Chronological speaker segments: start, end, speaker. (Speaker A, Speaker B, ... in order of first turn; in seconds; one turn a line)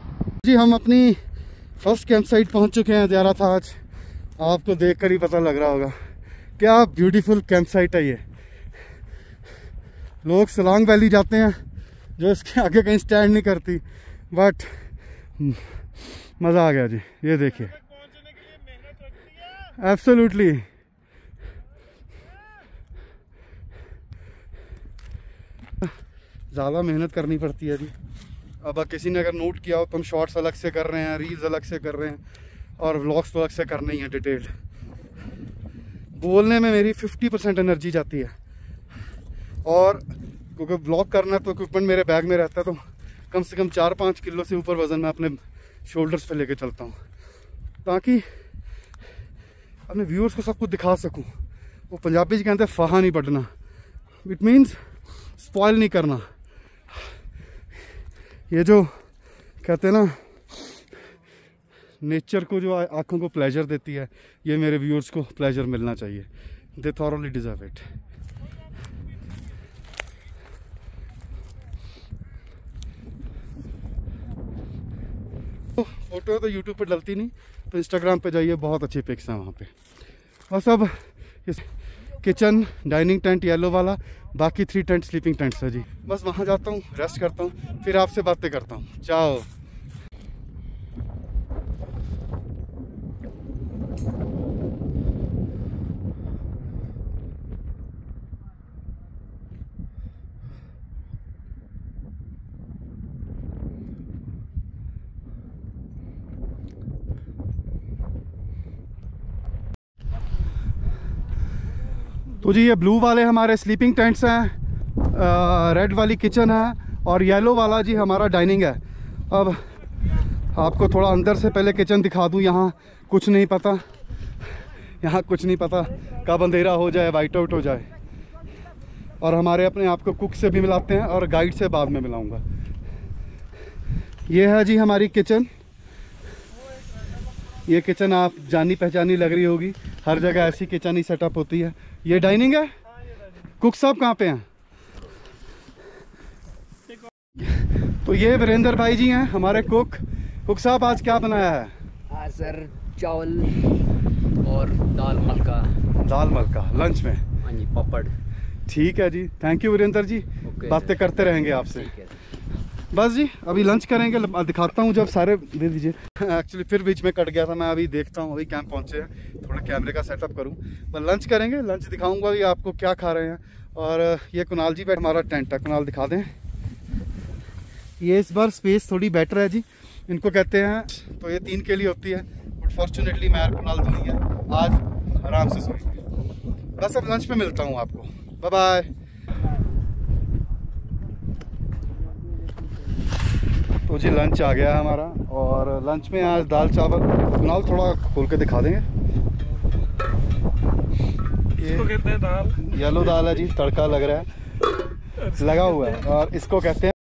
Speaker A: 0.4-1.2
Speaker A: 1.8-3.8
Speaker A: 4.4-6.0
Speaker A: 6.6-8.2
Speaker A: 10.2-11.6
Speaker A: 12.2-17.8
Speaker B: 17.8-19.7
Speaker A: 19.7-20.7
Speaker A: 26.5-27.9
Speaker A: 28.6-32.2
Speaker A: 32.8-34.5
Speaker A: 36.2-38.3
Speaker A: 39.6-47.0
Speaker A: 47.8-48.2
Speaker A: 49.9-51.3
Speaker A: 51.9-53.5
Speaker A: 54.2-54.8
Speaker A: 55.4-56.3
Speaker A: 58.5-59.0
Speaker A: 59.6-60.2
Speaker A: 62.0-67.9
Speaker A: 75.8-79.7
Speaker A: 80.5-89.5
Speaker A: 112.4-114.5
Speaker A: 115.1-119.7
Speaker A: 120.5-123.9
Speaker A: 125.0-127.9
Speaker A: 129.2-132.4
Speaker A: 134.3-135.5
Speaker A: 137.7-142.7
Speaker A: 143.6-144.4
Speaker A: 147.4-151.7
Speaker C: 152.1-153.6
Speaker C: 154.4-155.7
Speaker A: 156.0-157.2
Speaker C: 157.4-158.1
Speaker A: 158.7-161.9
Speaker C: 160.4-162.1
Speaker A: 162.9-176.3
Speaker A: 178.0-186.0
Speaker A: 186.8-188.9
Speaker A: 193.9-198.8
Speaker A: 201.6-201.9
Speaker B: 201.7-202.9
Speaker A: 202.6-204.3
Speaker B: 205.2-206.1
Speaker A: 205.3-206.9